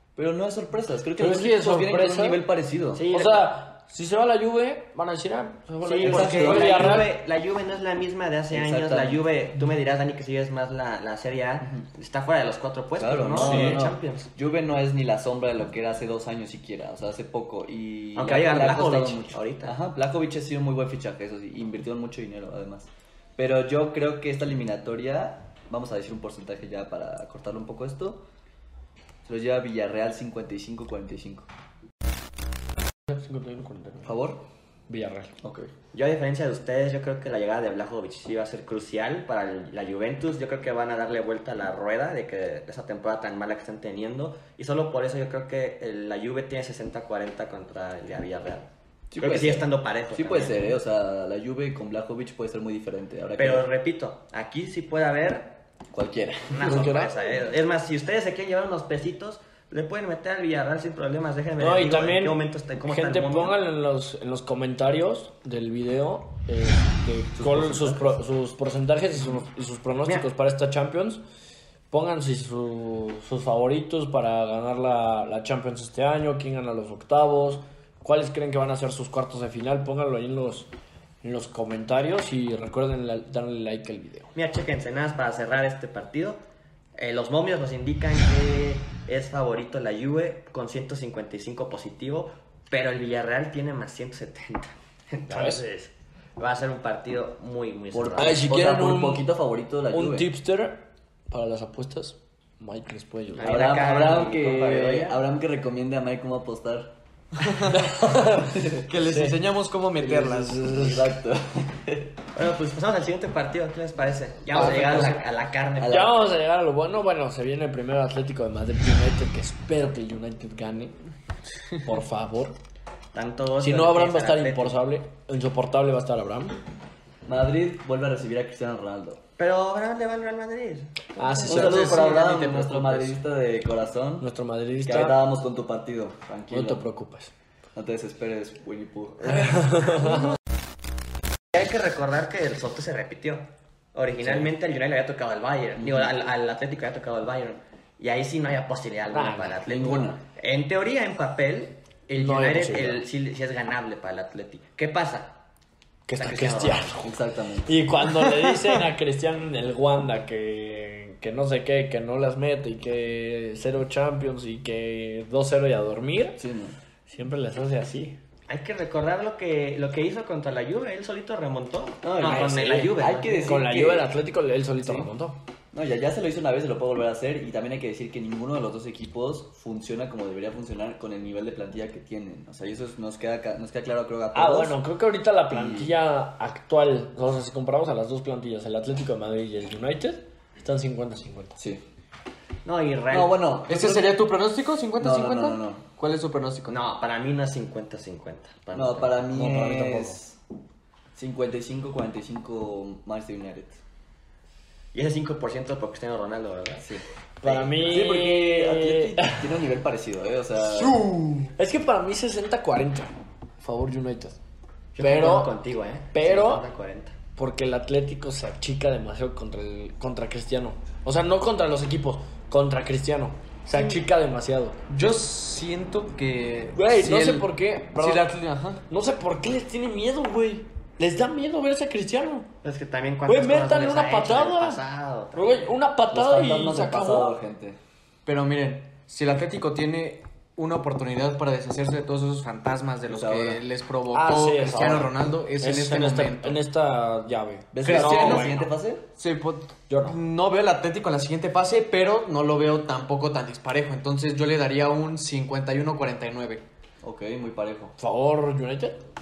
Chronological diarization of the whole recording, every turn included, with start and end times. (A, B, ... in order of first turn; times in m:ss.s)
0:00.2-0:03.0 A
0:01.2-0:02.4 B
0:02.9-0:03.6 C
0:03.1-0:07.1 B
0:05.8-0:14.3 C
0:06.0-0:07.1 A
0:08.5-0:09.2 A
0:13.0-0:28.2 A
0:13.4-0:13.8 B
0:18.2-0:19.8 C
0:29.2-0:31.5 A
0:33.1-0:34.2 B
0:34.0-0:34.4 A
0:34.9-0:35.4 B
0:35.4-0:35.7 A
0:35.9-0:50.6 C
0:49.1-0:53.7 A
0:53.4-0:55.6 C
0:55.9-0:57.1 A
0:56.5-1:03.6 C
0:56.6-0:57.1 B
1:01.6-1:11.2 B
1:07.4-1:08.1 A
1:11.9-1:20.7 B
1:21.2-1:24.3 B
1:24.4-1:26.4 C
1:27.0-1:38.5 C
1:35.3-1:35.6 B
1:37.9-1:40.3 A
1:38.2-1:39.3 B
1:39.9-1:43.7 B
1:43.4-1:45.2 C
1:43.4-1:47.0 A
1:47.4-1:47.9 D
1:47.7-1:49.4 B
1:48.3-1:48.9 A
1:48.7-1:50.6 D
1:50.0-1:52.2 A
1:50.0-1:51.1 B
1:52.4-1:56.1 C
1:54.6-1:55.2 D
1:54.6-1:55.2 A
1:55.8-1:56.2 A
1:55.9-2:01.0 B
2:01.8-2:02.6 B
2:03.1-2:04.8 C
2:03.6-2:06.6 B
2:07.3-2:09.2 A
2:09.4-2:11.9 C
2:11.2-2:12.2 B
2:11.4-2:14.3 A
2:11.5-2:13.1 D
2:14.2-2:15.2 B
2:14.9-2:16.9 A
2:16.5-2:17.3 B
2:17.8-2:19.8 A
2:19.3-2:20.3 B
2:21.5-2:35.4 C
2:24.2-2:24.5 A
2:25.8-2:26.1 A
2:29.1-2:29.6 B
2:29.6-2:30.2 A
2:32.1-2:33.0 B
2:36.1-2:46.4 B
2:36.2-2:37.0 C
2:37.0-2:37.8 A
2:46.4-2:46.8 A
2:47.1-2:48.2 B
2:48.5-2:53.6 C
2:52.0-2:54.1 A
2:53.4-2:55.4 B
2:54.8-2:55.1 A
2:55.7-3:04.8 A
3:04.3-3:11.6 B
3:05.5-3:05.9 A
3:11.6-3:11.8 A
3:12.6-3:13.4 C
3:13.1-3:14.2 A
3:13.7-3:16.7 D
3:15.0-3:15.8 A
3:16.7-3:19.5 C
3:18.7-3:20.4 A
3:21.2-3:23.8 A
3:24.9-3:26.9 C
3:26.8-3:27.0 A
3:27.4-3:29.5 B
3:27.4-3:28.1 C
3:27.8-3:31.0 A
3:30.7-3:31.5 D
3:31.6-3:34.4 B
3:35.0-3:37.2 C
3:35.0-3:35.5 B
3:36.1-3:36.6 B
3:37.4-3:44.8 B
3:44.9-3:48.8 D
3:46.7-3:48.3 B
3:48.9-3:52.5 B
3:52.6-3:55.7 C
3:53.3-3:54.8 B
3:55.3-3:57.4 B
3:56.1-3:57.8 A
3:58.3-4:06.6 D
4:03.1-4:03.6 A
4:04.1-4:08.6 B
4:07.7-4:09.0 A
4:07.8-4:16.6 D
4:09.9-4:10.2 B
4:17.0-4:17.9 A
4:18.0-4:19.0 B